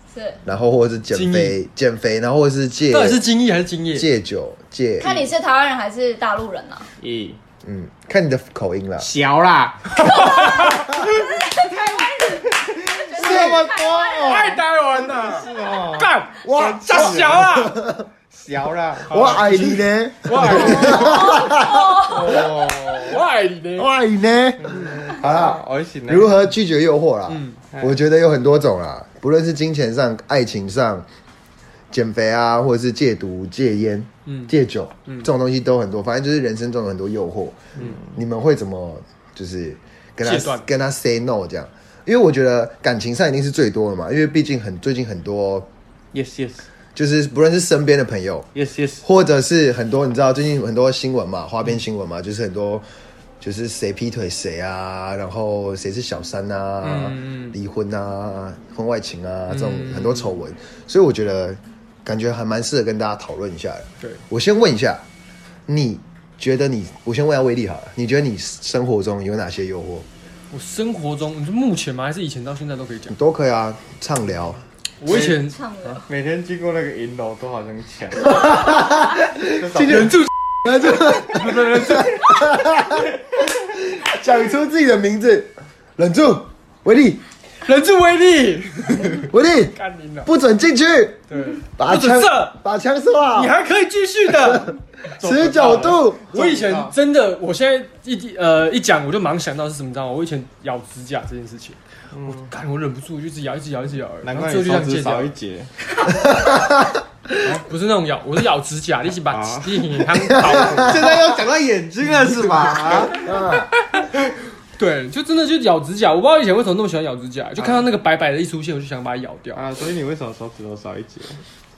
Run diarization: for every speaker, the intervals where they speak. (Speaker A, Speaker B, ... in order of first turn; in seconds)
Speaker A: 0.1-0.4, 5.0-6.9, 11.0-14.6, 20.8-22.2, 75.1-76.0
Speaker B: 0.4-3.2, 3.9-5.3, 7.6-9.1, 13.2-13.6, 16.4-18.1, 19.1-22.5, 23.8-31.0, 31.9-45.7, 46.9-48.5, 49.0-52.8, 53.4-65.0, 65.7-70.0, 73.1-74.6, 79.6-80.1, 80.6-83.1, 83.8-87.2, 89.1-93.5, 94.3-96.3, 106.1-107.0, 110.2-111.1, 113.1-113.7
Speaker C: 1.1-1.6, 2.9-4.1, 10.0-10.8, 14.2-17.7, 20.2-21.4, 22.3-23.9, 27.3-27.6, 34.2-34.5, 40.2-40.7, 56.8-57.6, 59.5-60.3, 70.5-73.2, 75.0-75.6, 79.9-80.3, 80.8-82.3, 87.6-90.3, 91.3-92.5, 93.3-94.7, 96.3-101.8, 102.5-105.3, 107.4-111.1, 114.8-119.6
Speaker D: 7.0-7.4, 9.0-11.4, 12.5-17.5, 18.3-19.8, 22.0-23.2, 24.6-26.4, 37.8-38.0, 46.1-46.7, 48.5-49.0, 76.0-78.6, 79.5-80.2, 95.2-96.9, 102.1-102.5, 104.2-105.7, 109.3-113.2, 119.5-121.4